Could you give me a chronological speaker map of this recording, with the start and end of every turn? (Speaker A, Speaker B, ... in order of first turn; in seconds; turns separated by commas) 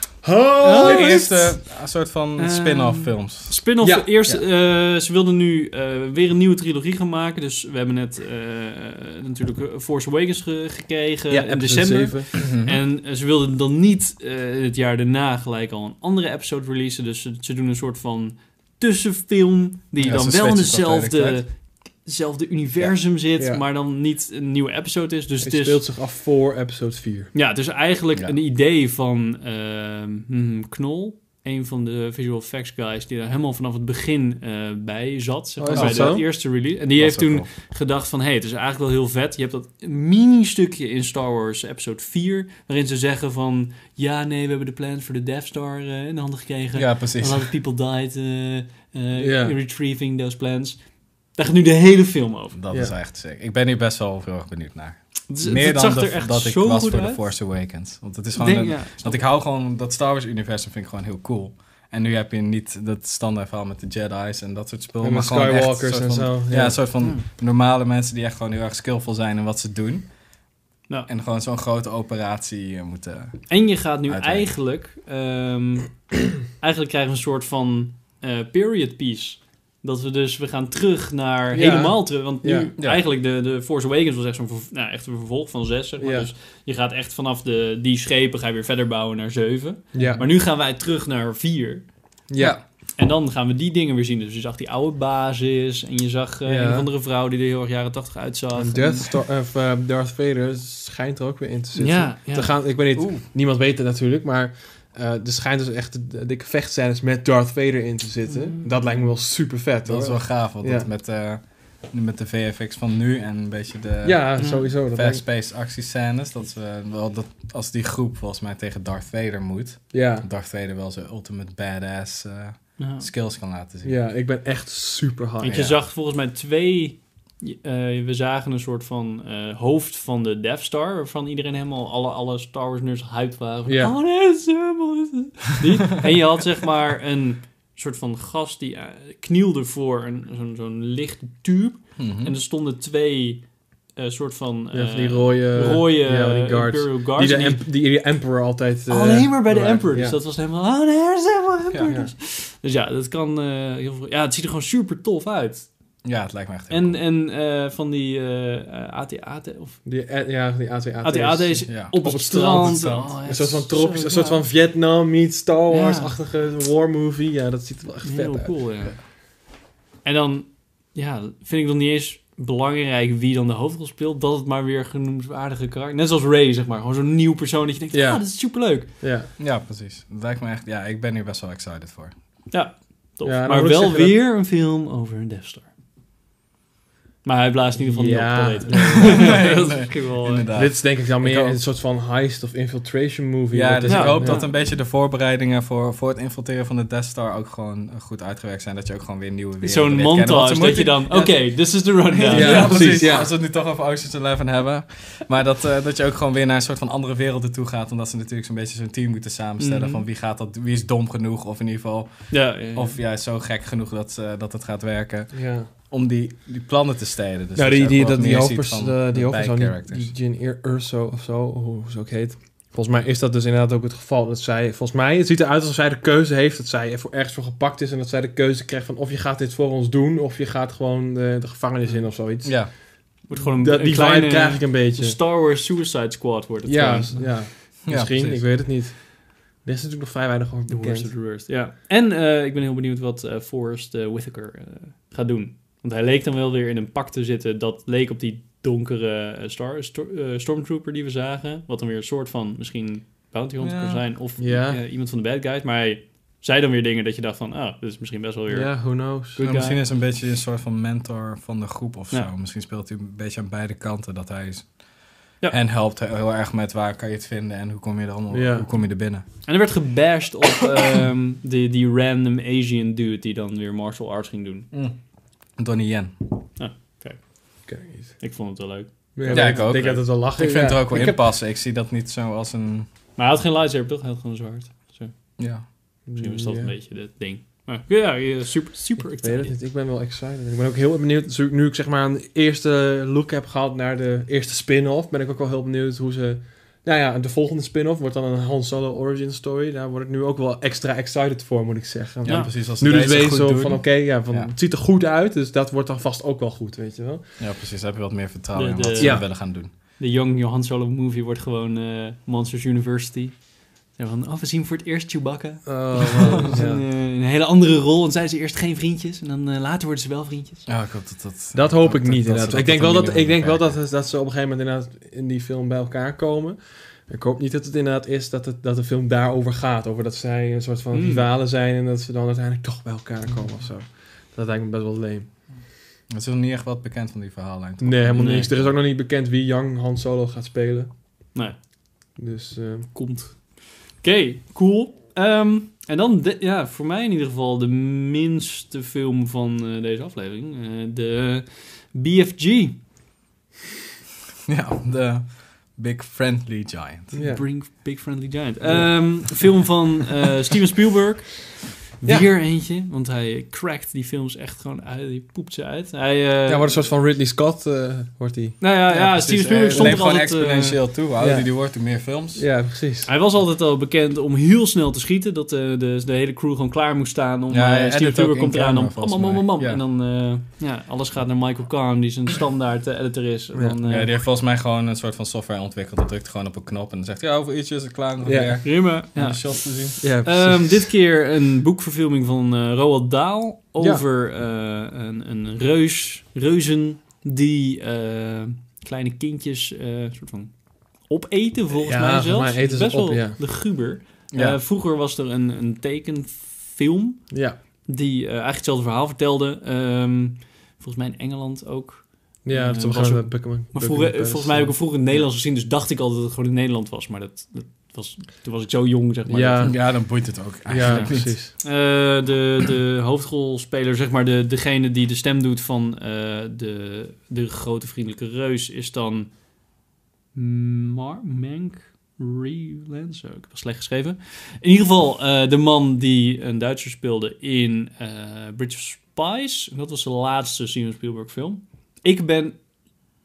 Speaker A: 0.2-1.5, Speaker B: 0.6-1.2, Speaker C: 0.7-3.6, Speaker B: 2.4-25.8, Speaker A: 3.8-4.1, Speaker A: 11.3-12.3, Speaker C: 12.4-12.8, Speaker C: 20.0-21.4, Speaker A: 23.4-23.6, Speaker A: 25.4-27.3, Speaker B: 27.3-52.5, Speaker A: 35.6-36.3, Speaker C: 35.7-37.5, Speaker C: 46.7-47.5, Speaker A: 49.2-49.5, Speaker C: 52.5-70.1, Speaker A: 52.7-53.0, Speaker B: 55.3-57.3, Speaker B: 58.3-59.2, Speaker A: 65.0-66.8, Speaker C: 71.0-74.5, Speaker B: 73.5-91.8, Speaker A: 81.5-82.7, Speaker A: 86.0-86.3, Speaker A: 89.9-90.3, Speaker A: 92.3-92.6, Speaker C: 92.4-92.6, Speaker B: 93.0-99.1, Speaker A: 96.4-96.9, Speaker A: 98.5-110.9, Speaker B: 101.7-102.5, Speaker C: 102.9-103.2, Speaker B: 108.3-109.0, Speaker C: 109.8-124.0, Speaker A: 114.0-115.2, Speaker B: 114.4-114.7, Speaker A: 119.9-120.3, Speaker B: 122.8-123.1, Speaker A: 123.8-125.6, Speaker B: 125.4-147.6, Speaker C: 125.4-125.8, Speaker A: 133.7-133.9, Speaker C: 142.0-142.3, Speaker A: 144.7-150.2, Speaker B: 148.9-155.7, Speaker A: 151.9-152.1, Speaker C: 156.0-157.0, Speaker B: 156.7-159.8, Speaker A: 159.8-169.0, Speaker B: 161.0-164.4, Speaker C: 161.7-161.9, Speaker B: 165.7-166.1, Speaker B: 168.0-178.9, Speaker A: 177.9-179.3, Speaker C: 179.4-182.1, Speaker B: 182.5-185.7, Speaker A: 183.2-184.2, Speaker B: 187.2-190.5, Speaker A: 187.8-189.7, Speaker C: 188.7-191.6, Speaker A: 190.5-194.4, Speaker C: 193.5-220.1, Speaker B: 193.9-194.5, Speaker B: 199.6-203.2, Speaker A: 202.3-203.3, Speaker B: 209.6-210.0, Speaker B: 212.3-213.0, Speaker A: 215.3-215.7, Speaker A: 217.5-235.2, Speaker C: 232.4-232.7, Speaker B: 233.3-237.4, Speaker A: 236.6-241.2, Speaker C: 237.8-238.4, Speaker B: 240.7-259.8, Speaker C: 253.6-254.1, Speaker A: 254.4-254.8, Speaker A: 258.5-259.4, Speaker C: 259.4-269.2, Speaker A: 268.3-268.7, Speaker B: 269.4-274.7, Speaker C: 274.7-275.0, Speaker C: 275.5-276.3, Speaker B: 276.6-277.7, Speaker A: 277.6-278.3, Speaker B: 278.2-279.7, Speaker A: 279.1-281.2, Speaker C: 279.3-282.9, Speaker B: 283.1-285.1, Speaker C: 285.4-285.7, Speaker A: 286.1-286.8, Speaker B: 286.2-289.5, Speaker A: 289.0-307.5, Speaker C: 302.2-304.5, Speaker B: 302.2-302.5, Speaker C: 307.4-309.7, Speaker B: 308.5-320.7, Speaker A: 309.0-309.3, Speaker A: 315.6-316.8, Speaker C: 320.6-323.7, Speaker A: 321.5-335.3, Speaker B: 330.9-331.2, Speaker C: 336.1-338.7, Speaker A: 337.8-340.9, Speaker B: 338.2-338.5, Speaker A: 342.1-342.9, Speaker B: 342.9-352.9, Speaker C: 354.5-357.1, Speaker A: 357.1-358.0, Speaker B: 357.1-366.9, Speaker A: 358.6-359.7, Speaker A: 362.0-362.3, Speaker A: 366.4-368.7, Speaker B: 368.6-370.8, Speaker C: 368.9-372.4, Speaker A: 369.5-370.1, Speaker A: 371.2-373.1, Speaker B: 373.0-384.1, Speaker C: 377.5-379.8, Speaker C: 383.8-390.1, Speaker A: 388.2-388.6, Speaker B: 388.6-407.3, Speaker A: 390.0-390.9, Speaker A: 393.8-394.0, Speaker A: 401.7-403.4, Speaker C: 404.3-404.6, Speaker A: 407.3-407.6, Speaker B: 407.8-419.8, Speaker A: 412.4-414.9, Speaker A: 419.2-419.9, Speaker C: 419.6-421.3, Speaker A: 420.7-421.5, Speaker B: 420.8-429.3, Speaker B: 430.3-442.6